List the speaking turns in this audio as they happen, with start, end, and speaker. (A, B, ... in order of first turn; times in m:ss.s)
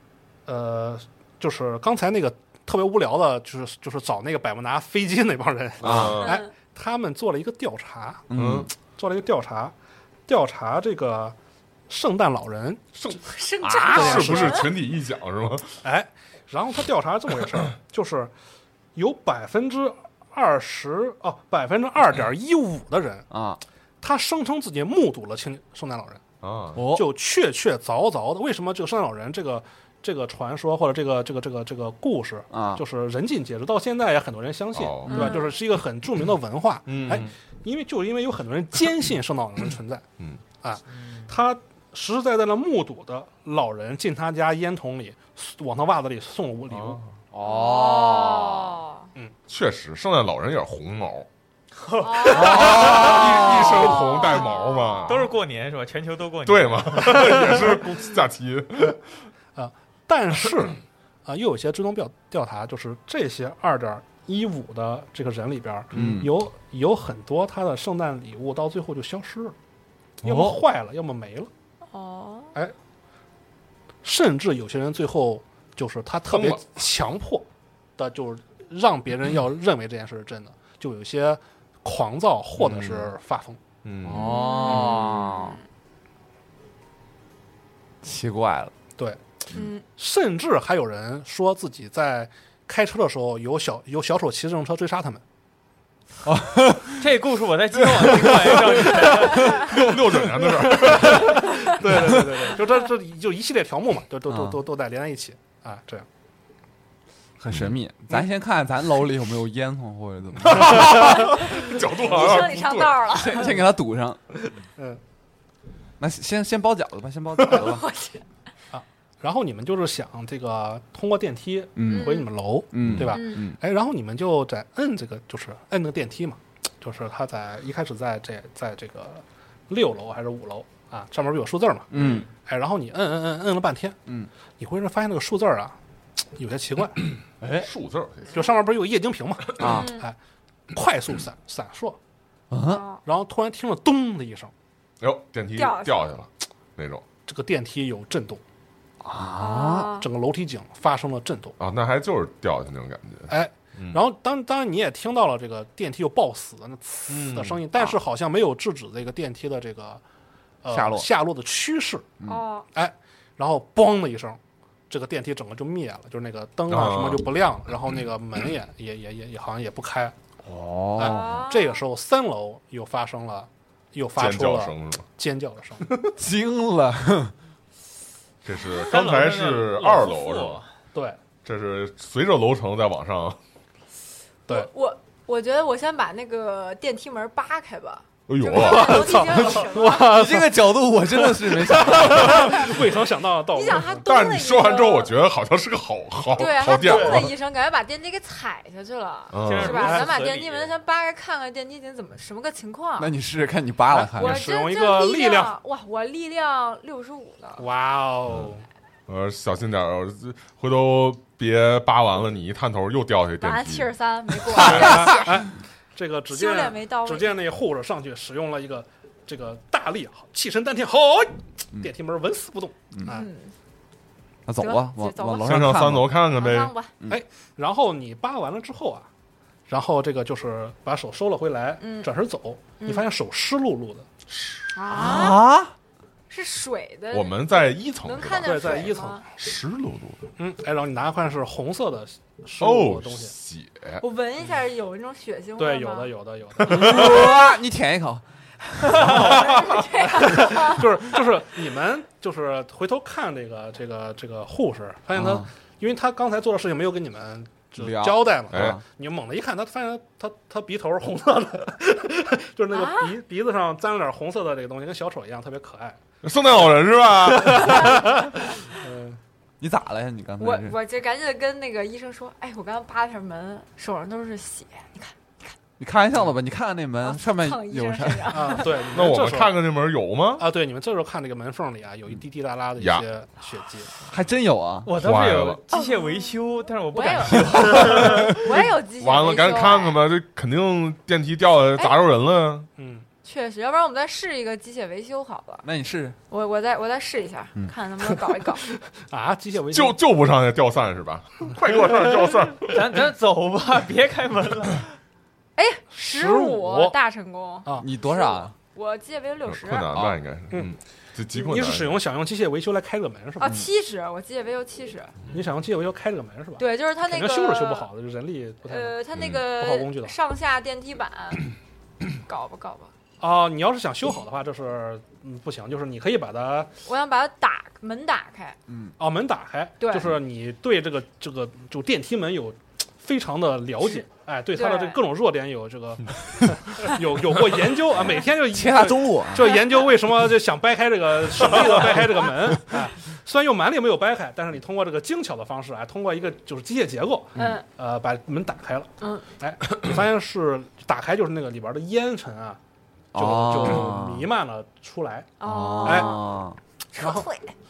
0:00.4-0:08.3 A
0:05.8-0:06.4 B
0:05.8-0:06.2 C
0:06.2-0:06.4 D
0:08.3-0:08.7 C
0:08.3-0:08.7 B
0:08.8-0:09.7 A
0:10.3-0:11.3 A
0:11.9-0:13.2 A
0:13.1-0:14.7 D
0:13.6-0:14.3 C
0:13.8-0:15.8 B
0:13.9-0:14.7 A
0:15.8-0:18.3 A
0:19.0-0:23.3 A
0:23.3-0:23.6 C
0:24.0-0:26.2 A
0:26.4-0:26.8 B
0:26.7-0:27.1 C
0:26.9-0:40.0 A
0:32.5-0:32.8 C
0:34.7-0:35.2 B
0:35.1-0:35.5 D
0:36.9-0:37.3 B
0:40.6-0:47.0 A
0:41.0-0:41.2 E
0:47.3-0:48.8 C
0:47.4-0:49.1 D
0:49.5-0:51.3 B
0:51.8-0:53.1 E
0:52.0-0:55.1 D
0:52.3-0:53.6 C
0:52.4-0:55.3 B
0:55.0-0:57.4 E
0:56.4-0:59.0 B
0:57.3-0:57.8 A
0:59.6-1:09.5 A
1:05.9-1:06.3 C
1:10.2-1:11.5 A
1:10.2-1:10.6 C
1:11.9-1:12.5 D
1:14.0-1:17.5 A
1:16.3-1:16.6 B
1:18.0-1:23.6 A
1:22.7-1:23.0 B
1:23.8-1:24.4 B
1:24.0-1:25.6 C
1:24.1-1:25.6 D
1:28.0-1:28.7 C
1:29.5-1:29.8 D
1:29.9-1:35.2 A
1:36.2-1:37.0 C
1:37.0-1:39.6 E
1:37.8-1:39.0 C
1:39.4-1:41.4 B
1:40.6-1:46.0 A
1:44.3-1:44.6 C
1:47.4-1:51.4 C
1:50.4-1:53.0 B
1:51.0-1:53.6 D
1:53.2-1:54.2 C
1:56.0-1:57.8 C
1:57.4-1:58.2 D
1:58.7-2:14.0 A
2:01.8-2:02.2 C
2:01.8-2:02.3 D
2:02.7-2:03.6 C
2:03.1-2:03.4 D
2:11.9-2:12.2 C
2:14.6-2:15.8 A
2:16.4-2:17.0 A
2:17.4-2:17.7 C
2:17.5-2:18.4 B
2:18.3-2:20.1 A
2:19.6-2:19.9 C
2:19.6-2:20.0 D
2:20.7-2:22.0 A
2:22.5-2:22.8 C
2:22.6-2:23.0 D
2:23.0-2:24.5 A
2:25.0-2:27.0 B
2:25.6-2:26.1 D
2:27.2-2:28.4 A
2:29.0-2:29.9 C
2:29.4-2:30.1 D
2:29.9-2:31.6 A
2:31.6-2:34.0 B
2:33.3-2:40.0 A
2:37.1-2:37.6 B
2:40.6-2:42.1 A
2:40.7-2:41.1 C
2:42.2-2:42.6 D
2:42.7-2:44.4 A
2:44.9-2:50.2 A
2:46.7-2:47.3 B
2:50.4-2:51.5 C
2:51.0-2:56.0 A
2:51.0-2:51.8 D
2:54.2-2:55.0 B
2:56.2-2:57.3 C
2:58.4-3:00.6 B
2:58.6-3:00.7 E
3:01.4-3:03.4 B
3:04.5-3:10.2 D
3:08.3-3:09.2 B
3:08.5-3:14.0 A
3:09.9-3:12.7 C
3:12.3-3:12.7 D
3:13.5-3:15.1 D
3:14.0-3:17.4 B
3:16.3-3:23.1 D
3:16.7-3:17.3 E
3:19.3-3:19.9 B
3:19.4-3:20.7 E
3:23.0-3:24.5 C
3:23.9-3:25.6 A
3:24.1-3:27.6 D
3:27.6-3:28.6 A
3:29.1-3:35.1 B
3:33.4-3:35.4 D
3:34.5-3:43.3 A
3:36.3-3:37.3 D
3:43.0-3:43.5 D
3:44.4-3:46.2 C
3:44.6-3:45.7 D
3:45.4-3:46.7 B
3:46.3-3:46.9 D
3:47.1-3:49.1 A
3:49.7-3:54.1 A
3:51.8-3:52.1 D
3:52.8-3:53.0 D
3:54.4-3:54.6 B
3:54.7-3:55.4 D
3:54.9-3:55.7 C
3:56.3-3:59.2 D
3:57.1-4:00.2 B
3:58.4-3:59.2 A
4:00.4-4:03.3 A
4:02.6-4:04.0 B
4:04.0-4:06.1 D
4:05.6-4:07.3 A
4:06.6-4:08.2 C
4:08.8-4:09.2 C
4:08.8-4:10.9 D
4:08.9-4:26.0 A
4:15.1-4:15.5 C
4:17.8-4:18.8 C
4:18.5-4:18.8 B
4:22.7-4:23.2 D
4:26.2-4:28.2 B
4:27.4-4:29.2 A
4:27.5-4:28.0 D
4:29.6-4:30.8 C
4:30.4-4:35.5 D
4:35.8-4:38.6 C
4:37.0-4:38.8 D
4:38.3-4:39.5 A
4:38.9-4:40.4 B
4:40.4-4:43.9 A
4:42.8-4:43.0 B
4:44.1-4:44.9 C
4:44.8-4:48.3 E
4:45.0-4:45.6 B
4:45.7-4:50.0 D
4:47.6-4:48.1 C
4:48.3-4:52.7 B
4:52.8-4:53.0 A
4:53.2-4:55.6 D
4:55.6-4:56.2 C
4:56.3-4:58.6 D
4:58.9-5:00.0 A
4:59.7-5:02.8 B
5:02.6-5:04.9 E
5:05.6-5:10.0 D
5:05.9-5:07.0 A
5:07.8-5:08.5 C
5:09.4-5:12.0 B
5:09.9-5:10.2 C
5:11.3-5:13.6 A
5:13.4-5:15.1 D
5:13.4-5:13.7 C
5:15.3-5:20.2 A
5:16.6-5:17.9 D
5:18.6-5:21.5 D
5:19.1-5:19.4 B
5:22.2-5:22.9 D
5:23.2-5:26.7 A
5:26.8-5:28.6 D
5:28.7-5:28.9 C
5:29.0-5:52.6 A
5:29.8-5:30.2 D
5:34.5-5:35.0 D
5:38.2-5:39.6 C
5:47.4-5:47.6 D
5:49.0-5:49.3 D
5:53.1-5:54.3 C
5:53.1-5:56.2 A
5:55.4-5:56.4 D
5:55.4-5:56.6 C
5:56.9-5:57.5 D
5:57.0-5:57.3 A